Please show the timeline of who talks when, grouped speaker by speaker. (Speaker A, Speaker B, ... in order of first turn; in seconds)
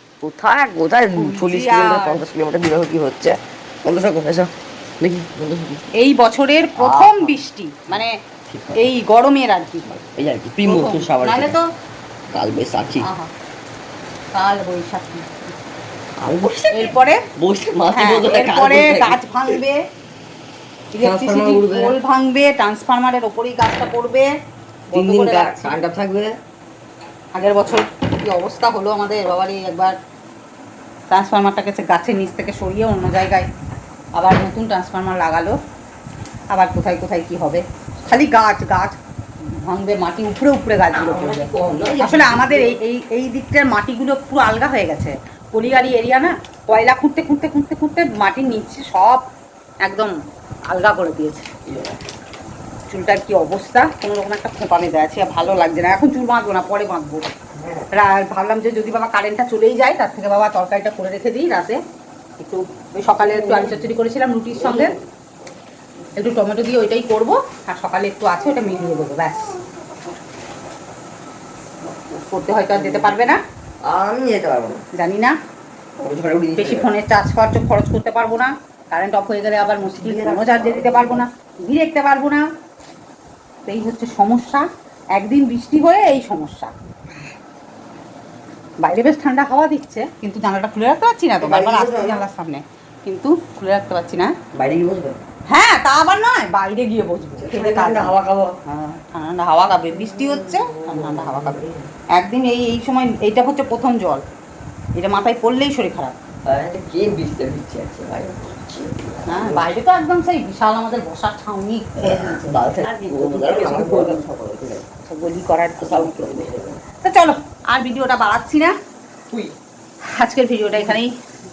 Speaker A: 0.2-5.8, 6.8-7.4, 8.5-8.8, 10.0-11.6, 12.3-13.1, 16.2-19.6, 21.0-21.9, 24.9-26.4, 40.9-42.8, 51.6-52.0, 57.5-57.9, 63.1-63.9, 64.5-65.0, 72.7-74.8, 76.0-76.9, 79.8-81.2, 91.4-92.3, 94.5-95.2, 97.3-98.5, 99.9-101.9, 106.5-109.7, 112.0-114.8, 115.8-116.8
Speaker B: 1.1-2.2, 6.0-8.1, 8.7-10.0, 10.6-11.7, 13.0-13.3, 14.3-15.3, 16.7-17.2, 17.9-19.8, 20.9-24.3, 24.9-25.7, 27.4-29.9, 31.1-33.5, 34.1-35.5, 36.5-41.5, 42.0-49.2, 49.8-50.1, 50.7-51.5, 52.9-57.3, 57.9-61.8, 62.4-64.9, 66.2-69.5, 71.9-73.4, 74.9-75.3, 76.6-82.5, 83.7-86.7, 88.8-94.3, 95.5-98.1, 98.7-101.6, 102.1-104.2, 105.0-106.2, 109.3-114.3, 115.0-116.5, 117.0-118.7, 120.0-121.1